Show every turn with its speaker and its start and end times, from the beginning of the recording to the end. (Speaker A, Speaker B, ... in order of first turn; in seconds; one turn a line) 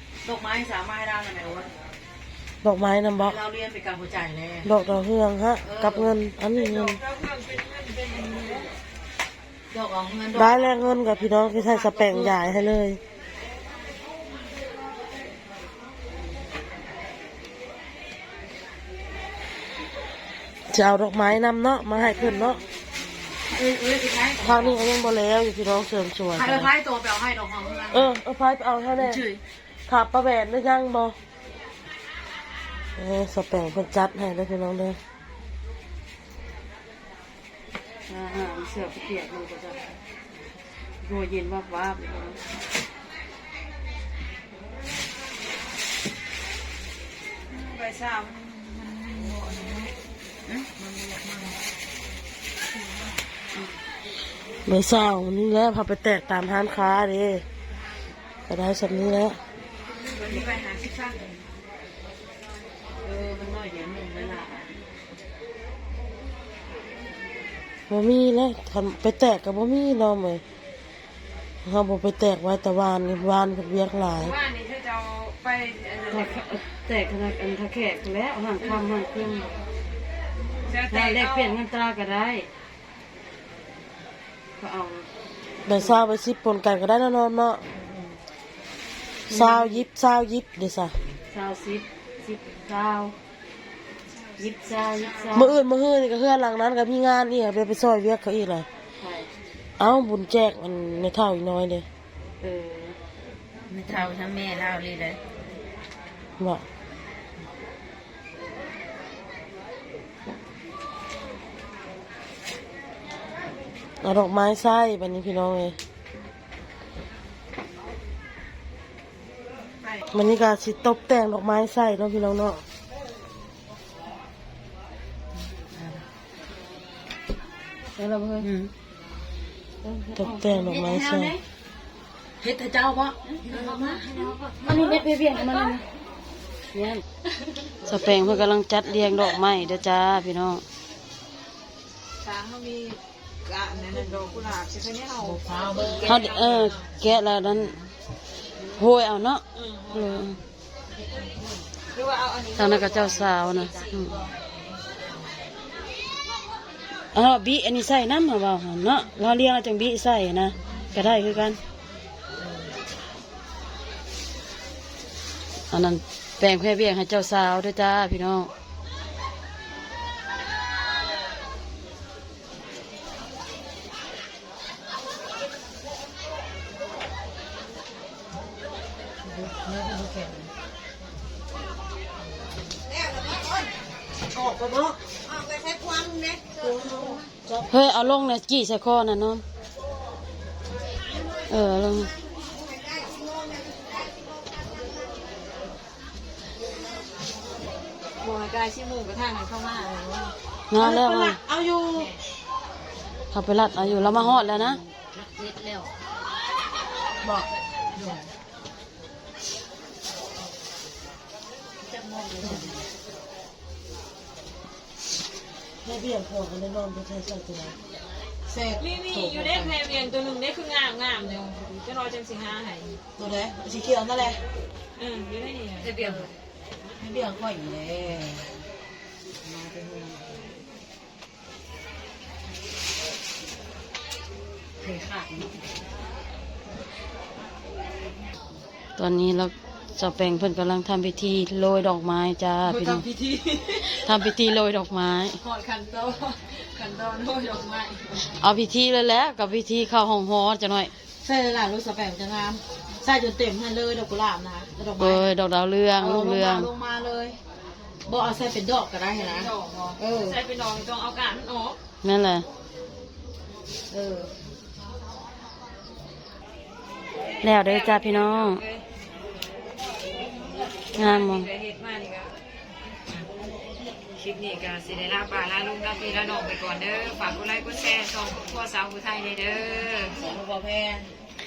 Speaker A: 0.2-1.7
Speaker B: 2.6-3.4
Speaker A: 3.2-4.7
Speaker B: 4.6-7.0
Speaker A: 5.6-6.1
Speaker C: 6.5-8.7
Speaker A: 9.7-10.7
Speaker B: 10.3-13.0
Speaker A: 11.3-12.6
Speaker B: 20.7-22.6
Speaker A: 23.4-24.9
Speaker B: 24.4-26.7
Speaker A: 26.3-28.1
Speaker B: 27.9-29.2
Speaker A: 28.9-29.4
Speaker B: 29.9-31.1
Speaker B: 33.0-35.0
Speaker D: 38.1-39.9
Speaker D: 41.0-42.5
Speaker C: 47.5-49.9
Speaker A: 50.5-51.6
Speaker B: 54.6-57.4
Speaker B: 58.5-59.4
Speaker C: 60.1-60.5
Speaker A: 60.2-61.4
Speaker A: 63.0-64.8
Speaker B: 67.9-70.4
Speaker B: 71.6-74.3
Speaker C: 74.2-76.4
Speaker D: 76.1-79.5
Speaker C: 80.7-81.6
Speaker D: 80.9-82.5
Speaker D: 84.6-85.1
Speaker B: 85.7-87.6
Speaker D: 85.8-86.0
Speaker D: 89.3-89.8
Speaker B: 89.3-90.9
Speaker D: 91.3-93.2
Speaker C: 94.1-95.5
Speaker D: 94.4-95.6
Speaker B: 95.3-98.7
Speaker D: 99.0-99.3
Speaker B: 99.8-101.8
Speaker D: 102.4-103.0
Speaker A: 103.7-105.2
Speaker B: 106.4-106.6
Speaker B: 114.0-115.8
Speaker B: 120.1-122.6
Speaker A: 125.7-126.0
Speaker D: 128.0-128.5
Speaker A: 128.4-128.7
Speaker D: 129.8-131.1
Speaker B: 130.2-131.4
Speaker A: 130.8-131.4
Speaker A: 132.4-134.0
Speaker C: 133.5-134.5
Speaker D: 134.6-135.8
Speaker D: 136.7-137.0
Speaker D: 137.8-140.6
Speaker C: 142.2-146.9
Speaker A: 145.2-146.3
Speaker D: 146.0-147.8
Speaker D: 148.8-150.4
Speaker C: 149.5-150.3
Speaker C: 151.9-154.2
Speaker D: 152.6-154.2
Speaker D: 157.1-161.6
Speaker D: 165.7-168.5
Speaker A: 179.2-180.5
Speaker A: 184.3-185.4
Speaker A: 186.1-187.7
Speaker D: 187.7-189.4
Speaker D: 191.5-192.1
Speaker C: 198.2-200.3
Speaker D: 200.7-201.4
Speaker B: 200.8-201.3
Speaker A: 200.9-202.1
Speaker D: 203.3-204.8
Speaker A: 204.1-205.9
Speaker A: 207.9-208.2
Speaker A: 211.8-212.9
Speaker B: 215.8-217.8
Speaker A: 218.5-219.8
Speaker C: 218.8-223.0
Speaker A: 223.2-224.4
Speaker C: 225.0-226.3
Speaker A: 225.8-226.3
Speaker A: 227.0-228.5
Speaker A: 229.4-230.4
Speaker A: 234.8-235.6
Speaker D: 239.0-243.0
Speaker A: 242.6-243.9
Speaker D: 243.8-245.4
Speaker C: 245.4-248.3
Speaker D: 248.2-250.9
Speaker A: 251.2-255.3
Speaker D: 255.0-256.7
Speaker A: 256.0-257.4
Speaker A: 258.1-260.4
Speaker C: 259.2-261.8
Speaker D: 262.0-262.5
Speaker A: 263.9-264.3
Speaker D: 267.4-268.6
Speaker C: 267.6-268.8
Speaker C: 270.9-272.4
Speaker D: 270.9-271.5
Speaker C: 274.1-280.2
Speaker A: 280.1-281.1